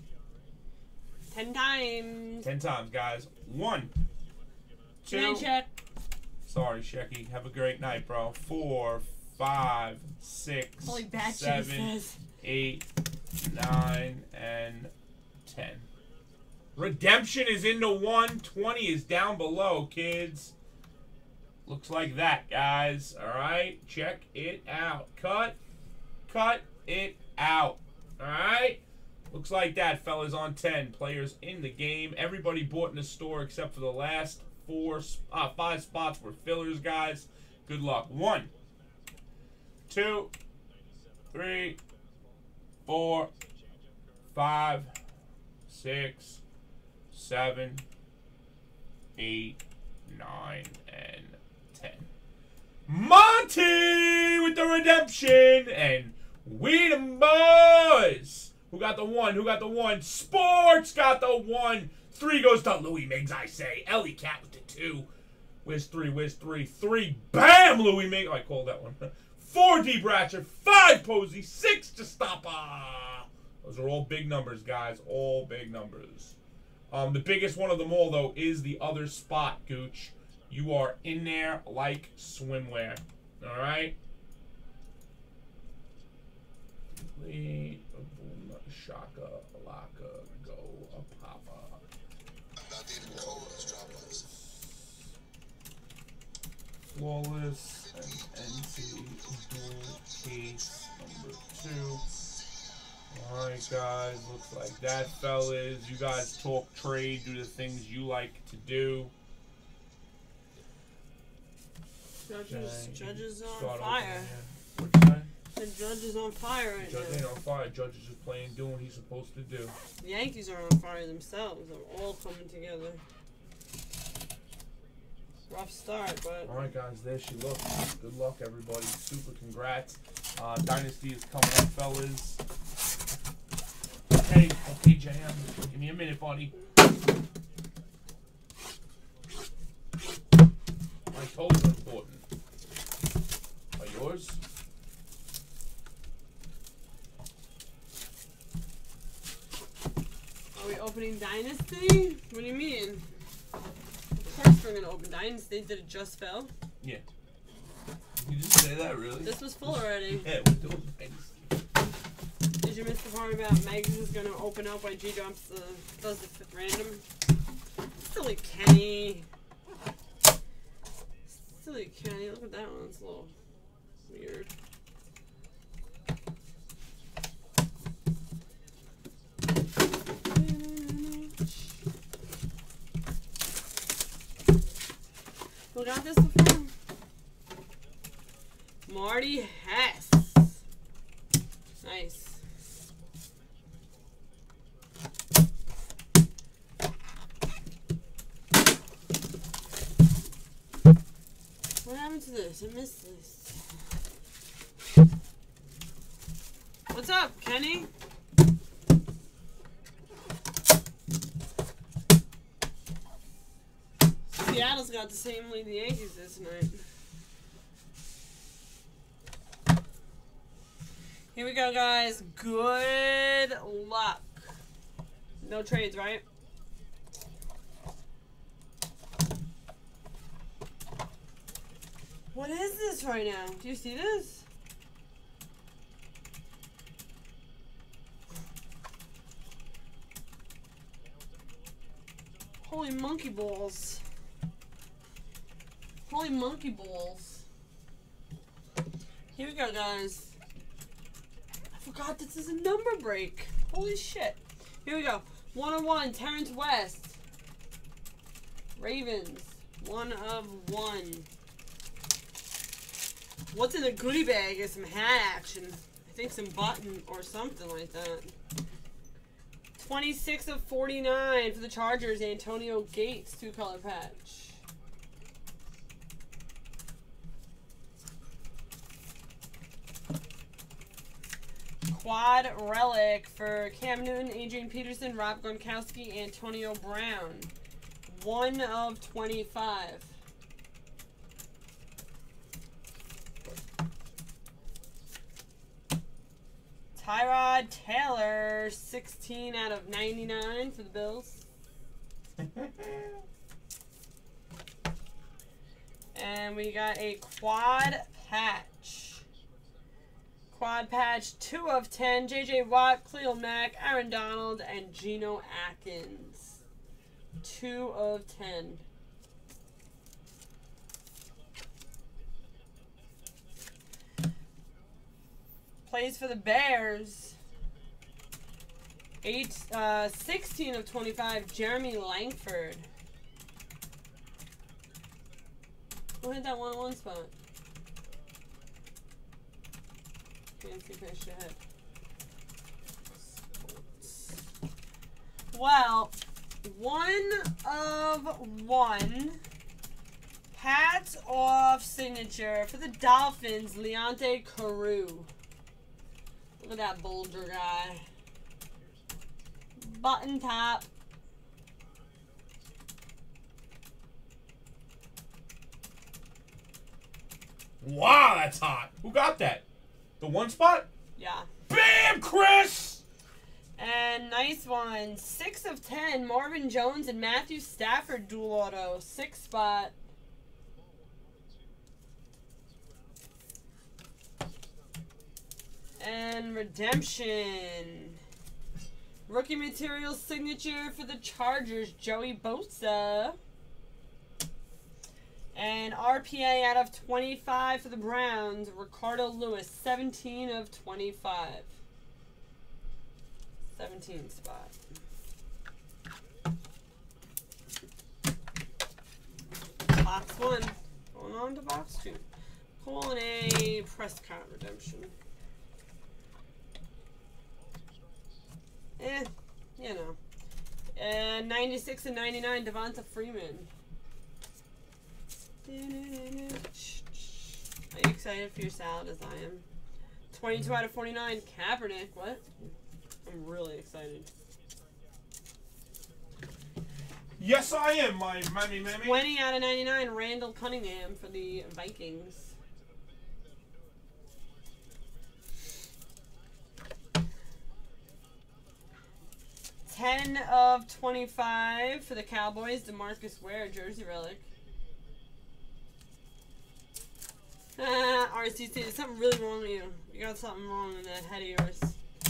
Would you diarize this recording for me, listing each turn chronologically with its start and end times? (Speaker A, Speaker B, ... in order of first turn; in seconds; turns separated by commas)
Speaker A: 1.3-2.5, Speaker B: 2.4-3.9, Speaker B: 5.0-5.5, Speaker A: 5.1-5.7, Speaker B: 6.5-12.8, Speaker A: 10.8-12.2, Speaker B: 13.4-14.9, Speaker B: 15.5-15.9, Speaker B: 16.8-20.5, Speaker B: 21.7-25.6, Speaker B: 26.3-38.5, Speaker B: 39.9-40.3, Speaker B: 41.3-41.8, Speaker B: 42.9-43.3, Speaker B: 44.3-44.9, Speaker B: 45.7-46.4, Speaker B: 47.1-47.9, Speaker B: 49.2-52.1, Speaker B: 52.9-65.1, Speaker B: 65.7-76.3, Speaker B: 76.9-84.0, Speaker B: 86.9-91.8, Speaker B: 96.9-102.0, Speaker B: 103.1-109.1, Speaker A: 112.2-114.3, Speaker B: 112.5-115.3, Speaker A: 115.5-117.2, Speaker B: 116.8-119.8, Speaker A: 120.0-123.0, Speaker A: 125.5-126.5, Speaker B: 126.5-132.4, Speaker B: 134.1-136.5, Speaker B: 141.1-142.2, Speaker B: 143.8-144.4, Speaker A: 150.6-153.0, Speaker A: 154.2-156.5, Speaker B: 158.2-159.4, Speaker A: 159.2-160.3, Speaker B: 160.1-161.5, Speaker A: 162.6-167.0, Speaker A: 168.0-169.3, Speaker A: 171.3-173.3, Speaker A: 174.1-174.5, Speaker A: 180.2-181.7, Speaker A: 185.7-186.7, Speaker A: 188.9-190.6, Speaker A: 191.8-192.4, Speaker A: 201.8-203.6, Speaker A: 206.9-207.9, Speaker A: 214.3-216.8, Speaker A: 221.3-224.5, Speaker A: 225.4-226.2, Speaker A: 232.3-234.4, Speaker A: 242.6-244.0, Speaker A: 246.1-247.4, Speaker A: 249.3-250.3, Speaker A: 251.7-257.2, Speaker A: 258.8-261.3, Speaker A: 263.5-268.4, Speaker A: 269.8-274.6, Speaker A: 281.9-287.5, Speaker A: 288.1-290.1, Speaker A: 297.0-301.4, Speaker B: 302.6-302.9, Speaker A: 306.1-309.2, Speaker A: 310.5-316.6, Speaker A: 317.4-318.8, Speaker A: 325.9-327.4, Speaker A: 329.2-332.9, Speaker A: 336.2-337.3, Speaker A: 340.6-341.6, Speaker A: 343.2-344.4, Speaker A: 345.5-349.4, Speaker A: 350.5-355.3, Speaker A: 356.6-358.1, Speaker A: 359.8-360.9, Speaker B: 367.8-369.6, Speaker B: 370.2-370.9, Speaker A: 371.2-371.5, Speaker B: 371.7-373.0, Speaker A: 373.8-379.9, Speaker A: 386.0-388.2, Speaker A: 389.3-393.4, Speaker A: 395.5-401.7, Speaker A: 403.8-404.8, Speaker A: 409.9-412.3, Speaker A: 412.8-415.1, Speaker A: 419.0-420.2, Speaker A: 421.0-423.7, Speaker A: 425.6-429.6, Speaker A: 430.3-432.5, Speaker A: 433.2-434.3, Speaker B: 437.4-439.2, Speaker A: 439.0-442.5, Speaker A: 449.9-454.4, Speaker A: 457.8-462.0